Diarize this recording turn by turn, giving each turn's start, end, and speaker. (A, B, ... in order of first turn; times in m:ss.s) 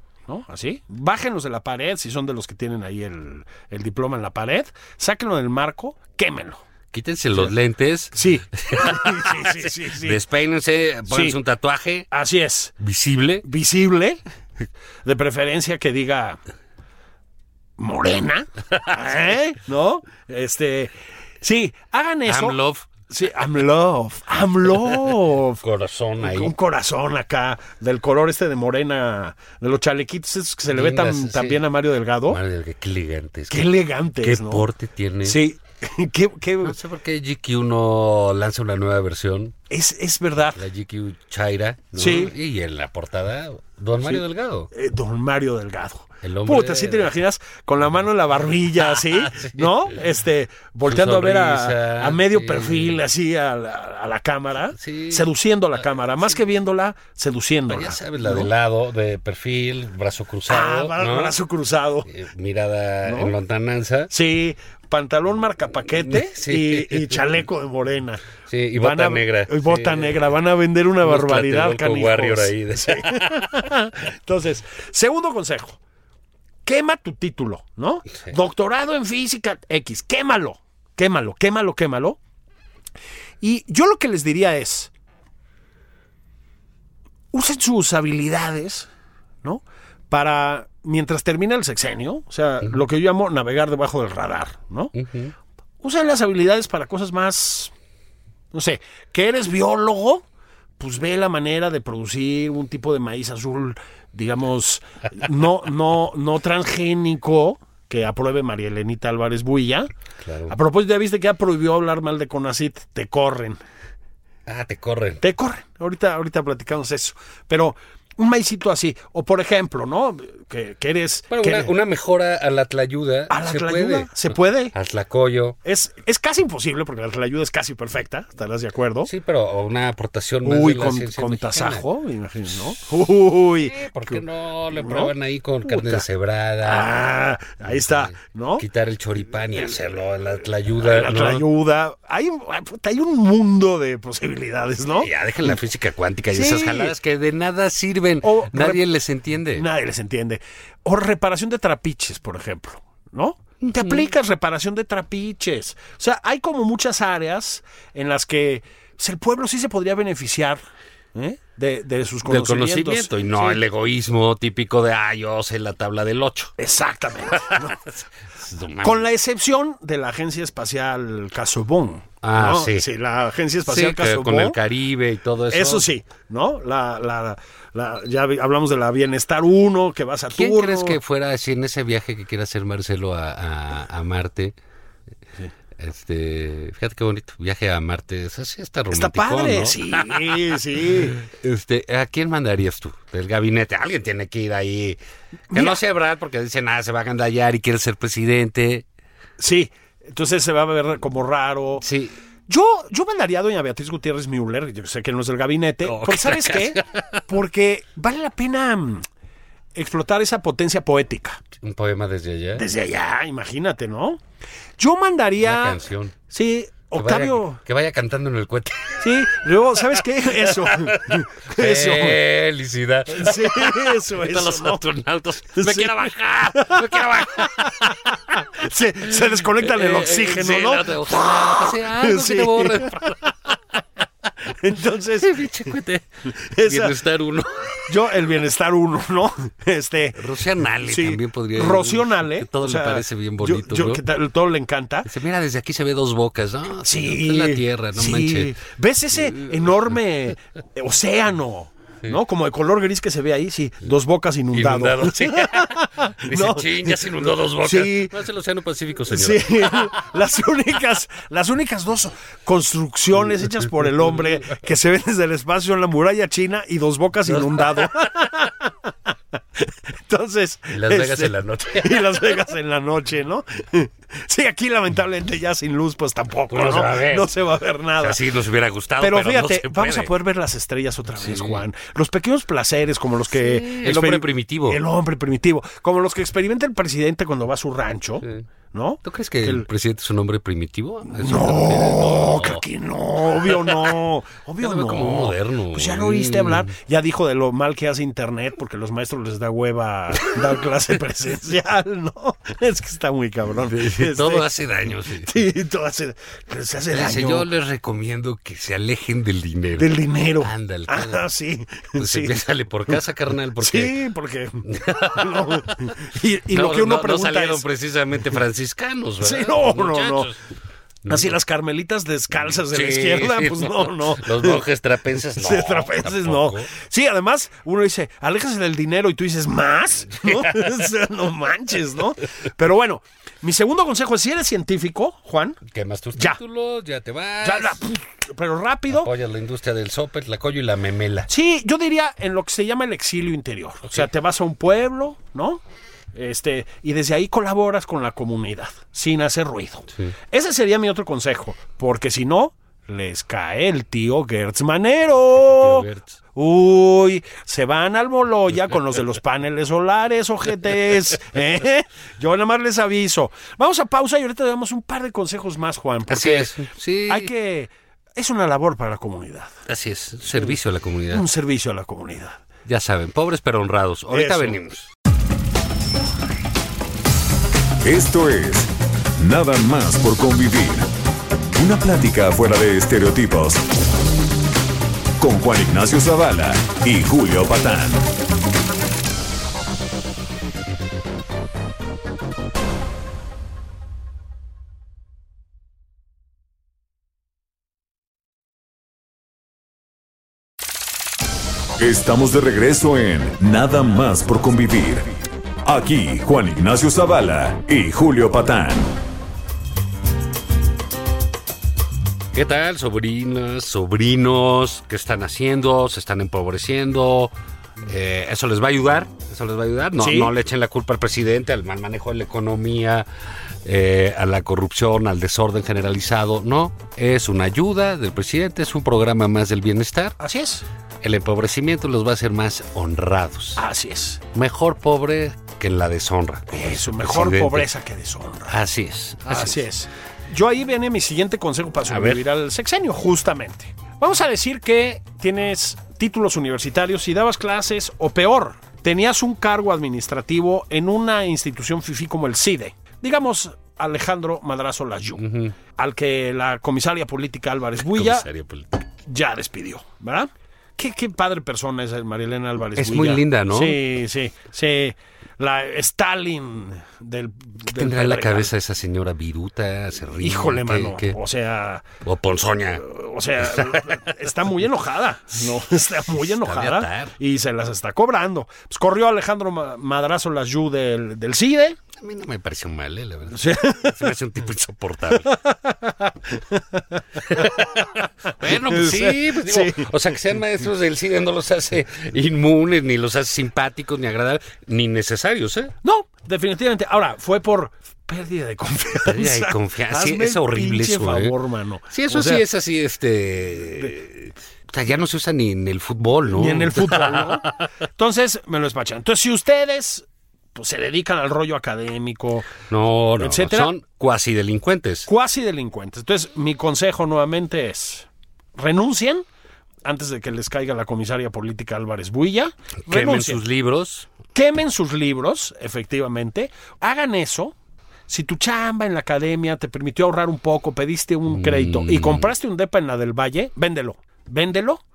0:00.3-0:06.6 A
0:06.9-0:12.1 B
0:08.1-0:10.2 A
0:11.1-0:11.4 A
0:12.1-0:12.7 A
0:12.8-0:13.4 B
0:13.4-0:14.2 A
0:15.0-0:16.4 A
0:17.8-0:25.6 A
0:22.3-0:22.9 B
0:25.6-0:26.5 B
0:26.2-0:32.4 A
0:30.7-0:31.6 B
0:32.3-0:35.4 B
0:33.5-0:34.6 A
0:35.2-0:36.8 A
0:36.6-0:39.6 B
0:39.7-0:40.6 A
0:40.6-0:44.7 B
0:42.0-0:42.4 A
0:44.0-0:58.5 A
0:46.2-0:47.1 B
0:48.8-0:49.9 B
0:50.9-0:53.0 B
0:54.8-0:55.3 B
0:57.7-1:01.4 B
1:00.5-1:02.1 A
1:02.1-1:04.1 B
1:03.0-1:03.4 A
1:04.1-1:08.2 A
1:06.1-1:07.3 B
1:08.5-1:10.2 B
1:08.8-1:15.8 A
1:11.0-1:13.5 B
1:16.6-1:22.2 A
1:23.4-1:24.9 A
1:27.3-1:28.9 A
1:29.4-1:34.9 A
1:35.0-1:35.3 B
1:35.8-1:37.7 A
1:38.5-1:40.2 A
1:40.8-1:49.9 A
1:50.2-1:50.6 B
1:50.5-1:53.6 A
1:54.5-1:55.2 B
1:55.2-2:01.7 A
2:01.3-2:05.6 B
2:03.3-2:04.7 A
2:05.6-2:09.1 A
2:09.0-2:11.8 B
2:10.4-2:15.1 A
2:13.6-2:17.0 B
2:15.7-2:16.1 A
2:16.6-2:18.6 A
2:17.7-2:21.4 B
2:20.8-2:25.6 A
2:25.0-2:29.7 B
2:26.3-2:27.0 A
2:28.2-2:28.8 A
2:29.6-2:40.6 A
2:33.6-2:34.0 B
2:41.1-2:43.6 A
2:42.2-2:46.5 B
2:46.6-2:47.9 A
2:47.4-2:47.8 B
2:48.4-2:49.0 B
2:48.8-2:54.6 A
2:52.2-2:52.9 B
2:53.7-2:55.9 B
2:55.5-3:01.0 A
3:00.3-3:04.6 B
3:05.8-3:10.4 B
3:08.9-3:11.2 A
3:11.0-3:15.0 B
3:15.5-3:15.8 A
3:15.5-3:18.8 B
3:19.4-3:21.8 A
3:21.8-3:22.2 B
3:22.5-3:29.1 A
3:25.8-3:27.2 B
3:29.7-3:31.4 A
3:31.6-3:32.7 B
3:32.6-3:34.2 A
3:34.8-3:37.6 A
3:35.4-3:36.2 B
3:37.0-3:39.1 B
3:39.0-3:42.2 A
3:40.4-3:48.1 B
3:43.1-3:44.8 A
3:45.6-3:53.3 A
3:49.6-3:53.3 B
3:54.4-3:55.4 A
3:55.2-3:58.0 B
3:56.3-3:57.0 A
3:57.9-4:00.2 A
4:00.2-4:04.0 B
4:00.9-4:05.1 A
4:05.0-4:08.6 B
4:06.8-4:18.2 A
4:14.5-4:20.0 B
4:19.1-4:38.2 A
4:27.3-4:27.9 B
4:30.7-4:32.2 B
4:36.5-4:37.3 B
4:38.0-4:40.1 B
4:39.0-4:49.7 A
4:41.2-4:41.6 B
4:43.4-4:44.8 B
4:49.0-4:52.6 B
4:51.1-5:04.5 A
4:53.5-4:53.9 B
4:54.6-4:56.7 B
5:03.6-5:05.4 B
5:05.1-5:07.5 A
5:06.9-5:11.2 B
5:09.8-5:13.0 A
5:12.0-5:14.0 B
5:13.6-5:17.6 A
5:14.7-5:15.9 B
5:16.5-5:20.4 B
5:19.2-5:20.3 A
5:21.1-5:21.3 B
5:21.1-5:24.6 A
5:22.5-5:26.7 B
5:25.4-5:35.6 A
5:30.2-5:30.7 B
5:35.7-5:37.8 B
5:36.2-5:36.4 A
5:37.4-5:39.1 A
5:38.9-5:41.3 B
5:41.3-5:45.6 A
5:46.1-6:06.6 A
5:55.4-5:56.2 B
6:06.1-6:07.3 B
6:07.1-6:09.6 A
6:09.7-6:11.3 B
6:11.1-6:12.4 A
6:12.7-6:14.9 B
6:14.1-6:14.6 A
6:17.8-6:20.9 C
6:21.5-6:23.7 C
6:25.2-6:28.1 C
6:41.8-6:49.0 C
6:52.3-7:03.1 B
7:00.0-7:00.3 A
7:03.6-7:10.2 B
7:10.2-7:10.7 A
7:11.0-7:13.6 B
7:13.6-7:14.3 A
7:14.3-7:17.7 B
7:16.5-7:18.6 A
7:18.5-7:19.6 B
7:19.3-7:38.3 A
7:21.9-7:22.2 B
7:35.2-7:35.5 B
7:37.8-7:38.8 B
7:39.0-7:48.5 A
7:42.8-7:43.8 B
7:47.7-7:51.2 B
7:50.2-7:51.9 A
7:52.0-7:52.8 B
7:52.8-8:01.8 A
7:53.5-7:54.0 B
7:56.3-7:57.1 B
8:02.0-8:05.4 B
8:03.3-8:04.1 A
8:05.2-8:09.9 A
8:07.3-8:15.7 B
8:15.8-8:22.4 A
8:19.0-8:21.4 B
8:21.9-8:27.7 B
8:26.3-8:32.6 A
8:32.7-8:35.1 B
8:33.2-8:33.7 A
8:35.1-8:39.3 A
8:39.8-8:43.4 A
8:42.9-8:44.1 B
8:44.3-8:47.6 A
8:48.1-8:54.8 A
8:51.3-8:52.3 B